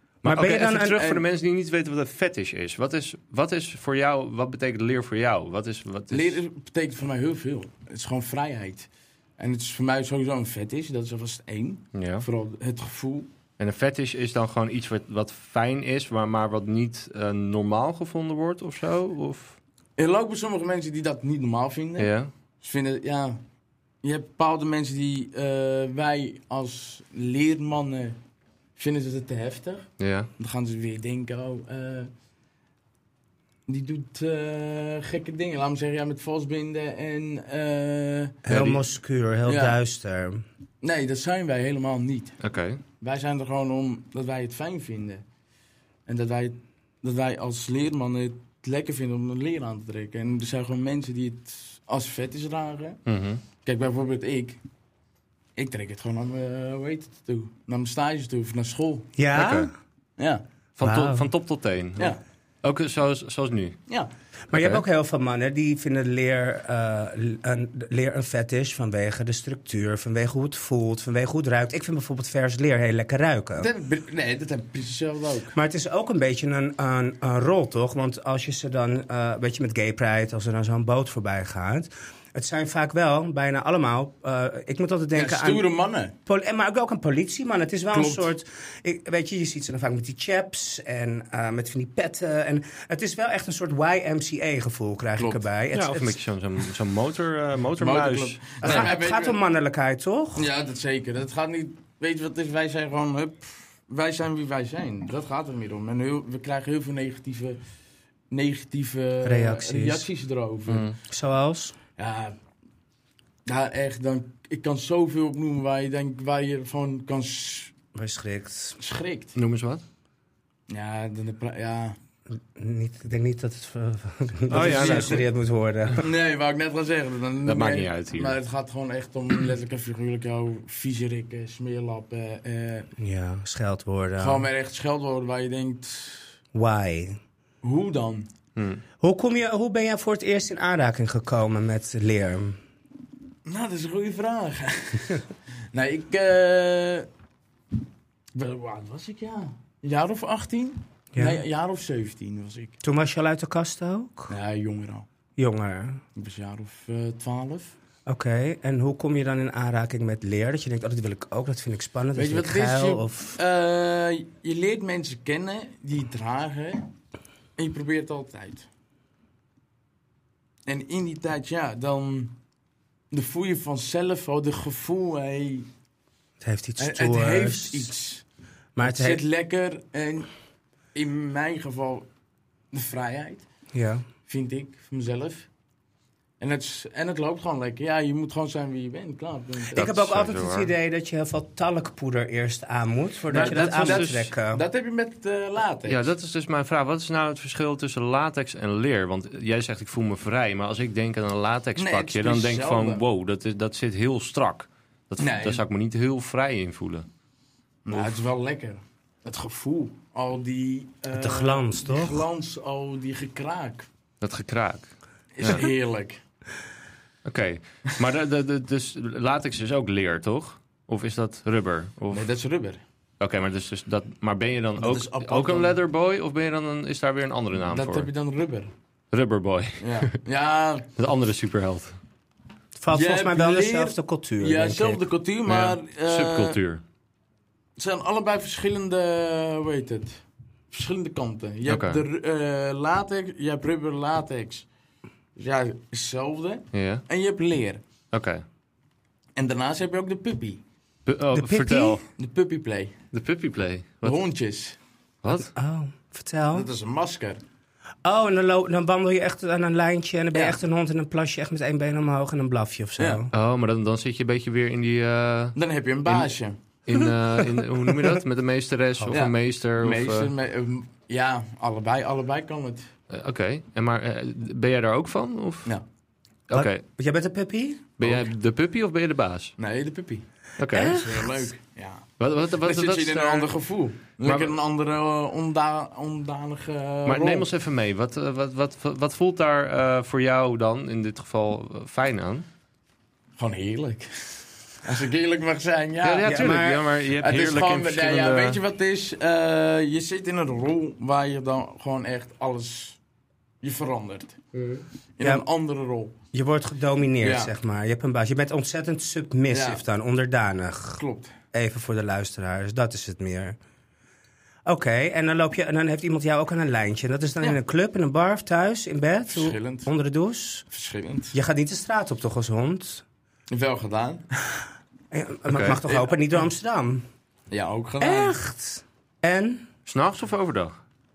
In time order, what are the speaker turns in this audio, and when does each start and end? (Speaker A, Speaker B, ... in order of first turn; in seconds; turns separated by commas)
Speaker A: 0.2-1.0, Speaker B: 0.2-6.4, Speaker C: 6.1-13.3, Speaker B: 11.9-12.2, Speaker B: 13.6-19.6, Speaker C: 20.0-22.1, Speaker B: 22.0-22.3, Speaker C: 22.6-23.4, Speaker C: 24.0-28.2, Speaker C: 28.8-32.1, Speaker B: 30.0-30.3, Speaker C: 33.7-38.5, Speaker A: 38.5-40.4, Speaker B: 38.5-38.8, Speaker C: 39.5-39.8, Speaker C: 40.8-42.4, Speaker B: 42.4-42.8, Speaker C: 43.0-45.2, Speaker C: 46.1-53.0, Speaker B: 53.1-53.4, Speaker C: 53.6-54.6, Speaker C: 55.6-59.1, Speaker A: 59.2-59.7, Speaker B: 59.3-59.7, Speaker C: 60.2-60.4, Speaker B: 60.8-63.8, Speaker A: 60.8-61.3, Speaker A: 64.5-73.7, Speaker B: 64.5-64.8, Speaker C: 73.6-75.5, Speaker A: 75.5-85.6, Speaker C: 85.1-86.1, Speaker A: 86.2-96.2, Speaker C: 87.9-88.3, Speaker C: 95.2-95.4, Speaker B: 95.7-98.9, Speaker C: 97.8-99.4, Speaker A: 98.6-100.5, Speaker C: 100.4-107.6, Speaker C: 108.3-110.9, Speaker A: 109.2-110.1, Speaker B: 110.7-110.9, Speaker A: 111.1-111.8, Speaker C: 112.0-112.4, Speaker C: 113.5-117.7, Speaker A: 117.9-118.8, Speaker C: 118.8-119.3, Speaker B: 119.3-119.8, Speaker C: 120.7-122.0, Speaker A: 122.5-126.0, Speaker B: 124.5-125.2, Speaker C: 124.5-125.2, Speaker C: 126.0-132.9, Speaker B: 127.4-128.4, Speaker A: 133.0-134.5, Speaker C: 134.2-136.3, Speaker A: 136.5-137.2, Speaker C: 137.6-138.3, Speaker B: 138.6-138.8, Speaker A: 139.0-142.6, Speaker C: 143.4-147.1, Speaker C: 148.3-152.8, Speaker A: 151.2-151.4, Speaker A: 152.8-154.3, Speaker C: 154.3-155.1, Speaker A: 155.4-156.0, Speaker C: 156.2-157.7, Speaker A: 158.1-163.4, Speaker C: 162.1-166.9, Speaker C: 167.6-168.7, Speaker C: 170.7-172.3, Speaker C: 173.1-175.7, Speaker A: 176.4-177.9, Speaker C: 176.8-178.2, Speaker A: 178.8-179.2, Speaker C: 178.8-180.3, Speaker C: 180.9-182.1, Speaker C: 182.7-183.4, Speaker A: 183.7-184.1, Speaker C: 184.3-185.5, Speaker C: 186.4-189.9, Speaker A: 189.7-194.6, Speaker B: 189.8-190.7, Speaker B: 193.3-194.3, Speaker C: 193.3-196.1, Speaker B: 195.9-207.1, Speaker C: 201.8-203.0, Speaker C: 205.2-205.6, Speaker C: 207.9-213.9, Speaker A: 211.1-212.2, Speaker B: 214.2-214.9, Speaker C: 215.4-216.2, Speaker B: 217.2-222.2, Speaker C: 222.1-222.8, Speaker B: 223.2-228.1, Speaker C: 224.8-225.8, Speaker C: 227.7-228.7, Speaker B: 229.1-230.1, Speaker C: 229.8-230.9, Speaker B: 231.0-232.0, Speaker A: 232.8-235.0, Speaker C: 232.9-236.6, Speaker B: 235.5-236.8, Speaker C: 237.8-244.6, Speaker B: 241.7-242.0, Speaker C: 245.4-247.8, Speaker B: 246.7-247.0, Speaker B: 248.1-248.4, Speaker C: 249.4-250.6, Speaker B: 251.1-252.0, Speaker A: 251.3-252.0, Speaker C: 252.2-252.9, Speaker B: 253.1-254.2, Speaker C: 254.0-254.8, Speaker B: 255.2-255.5, Speaker A: 255.5-256.7, Speaker C: 256.5-257.4, Speaker A: 258.0-263.3, Speaker C: 263.0-263.2, Speaker B: 263.3-265.6, Speaker C: 265.6-266.5, Speaker B: 266.9-270.3, Speaker C: 269.1-272.9, Speaker B: 273.1-275.7, Speaker B: 276.5-276.8, Speaker A: 276.5-277.9, Speaker B: 278.0-279.5, Speaker C: 279.6-280.2, Speaker B: 280.6-281.0, Speaker A: 280.7-281.5, Speaker C: 280.8-287.5, Speaker B: 282.2-283.5, Speaker B: 284.2-284.5, Speaker B: 287.1-292.5, Speaker C: 293.4-296.4, Speaker B: 296.0-298.6, Speaker A: 296.2-296.8, Speaker C: 297.2-303.0, Speaker C: 303.6-306.1, Speaker A: 306.3-313.6, Speaker C: 307.2-307.5, Speaker C: 309.5-309.8, Speaker C: 311.0-311.3, Speaker A: 314.6-320.6, Speaker C: 319.3-319.9, Speaker C: 320.7-321.4, Speaker A: 321.3-323.0, Speaker C: 323.5-324.2, Speaker A: 325.1-327.1, Speaker B: 325.5-325.8, Speaker C: 325.8-326.2, Speaker C: 327.5-328.4, Speaker A: 328.0-329.6, Speaker B: 329.9-330.8